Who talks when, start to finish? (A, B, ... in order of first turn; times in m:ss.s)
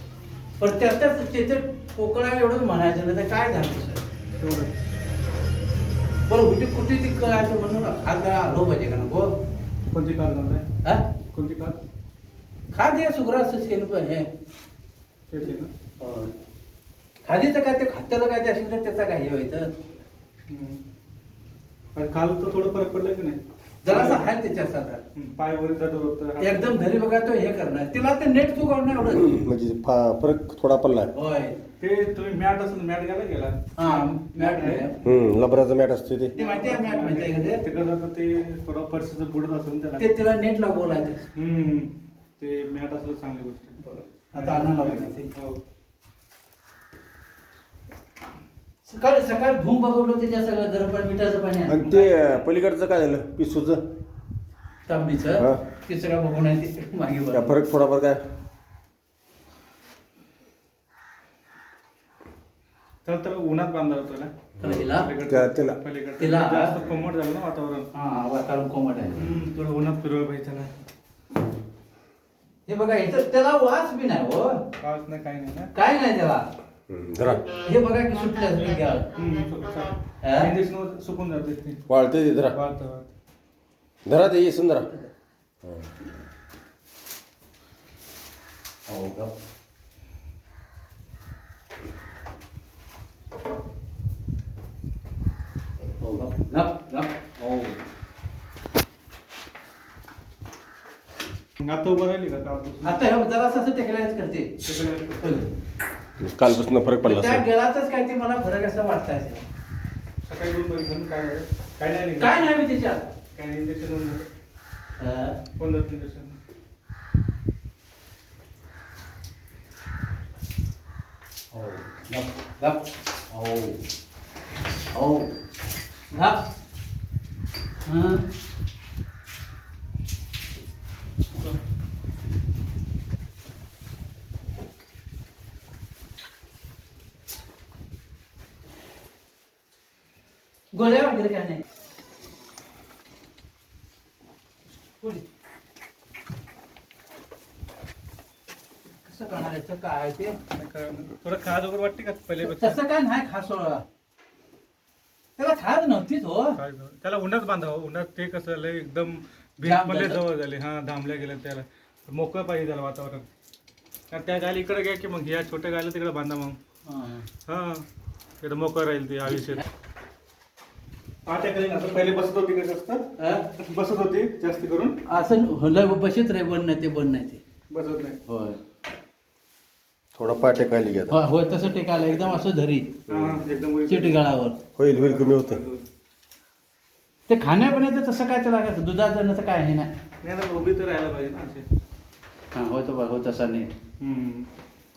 0:00.6-0:04.0 A
0:04.4-0:04.7 B
0:06.3-0:09.3 A
0:09.9-0:10.6 B
0:11.3-0:11.8 B
0:12.7-0:14.2 A
0:15.3-0:15.7 B
0:16.0-0:16.3 A
0:17.2-0:19.8 A
0:20.5-0:20.8 B
0:21.9-0:24.3 B
0:23.8-0:25.0 A
0:25.1-0:26.8 B
0:26.4-0:29.4 A
0:29.0-0:31.1 C
0:31.1-0:31.6 A
0:31.8-0:34.9 B
0:33.8-0:35.0 A
0:35.0-0:36.3 C
0:36.3-0:40.2 B
0:36.4-0:37.6 A
0:40.0-0:41.3 A
0:41.3-0:45.6 B
0:43.8-0:45.3 A
0:48.8-0:52.0 A
0:51.7-0:53.8 C
0:54.9-0:57.6 A
0:55.4-0:55.6 C
0:57.3-0:58.2 C
1:03.0-1:07.9 B
1:04.6-1:05.1 A
1:05.3-1:05.8 C
1:06.2-1:06.7 A
1:07.9-1:09.2 A
1:09.1-1:10.7 B
1:12.6-1:14.6 A
1:14.8-1:15.7 B
1:15.7-1:16.4 A
1:16.9-1:17.4 C
1:17.6-1:19.1 A
1:19.1-1:21.8 B
1:20.2-1:20.5 A
1:21.9-1:22.6 C
1:22.5-1:23.1 B
1:24.0-1:24.9 C
1:28.9-1:29.3 A
1:36.0-1:37.8 A
1:41.6-1:43.0 B
1:42.8-1:44.5 A
1:44.6-1:45.4 B
1:45.2-1:45.5 A
1:46.2-1:47.4 C
1:47.0-1:49.4 A
1:50.2-1:52.6 B
1:52.2-1:53.1 A
1:53.3-1:54.3 B
1:55.0-1:55.4 A
1:55.6-1:56.3 B
2:01.5-2:03.8 A
2:04.9-2:05.3 A
2:06.1-2:06.4 A
2:07.8-2:08.2 A
2:20.7-2:21.6 A
2:29.0-2:30.4 A
2:30.5-2:32.8 B
2:32.4-2:33.8 A
2:35.4-2:36.6 A
2:36.6-2:43.3 B
2:39.6-2:40.2 A
2:44.1-2:46.6 B
2:46.8-2:47.3 A
2:47.5-2:47.8 B
2:48.4-2:49.6 B
2:51.2-2:53.0 B
2:53.2-2:53.5 A
2:53.5-2:55.0 B
2:55.1-2:57.4 A
2:57.7-2:58.2 B
2:58.2-2:58.6 A
3:00.1-3:01.2 C
3:01.1-3:03.0 A
3:03.1-3:04.2 B
3:03.1-3:03.4 C
3:03.9-3:04.6 A
3:04.8-3:05.6 C
3:04.9-3:05.8 B
3:07.3-3:09.9 A
3:10.2-3:11.6 B
3:12.5-3:13.7 A
3:14.0-3:14.5 B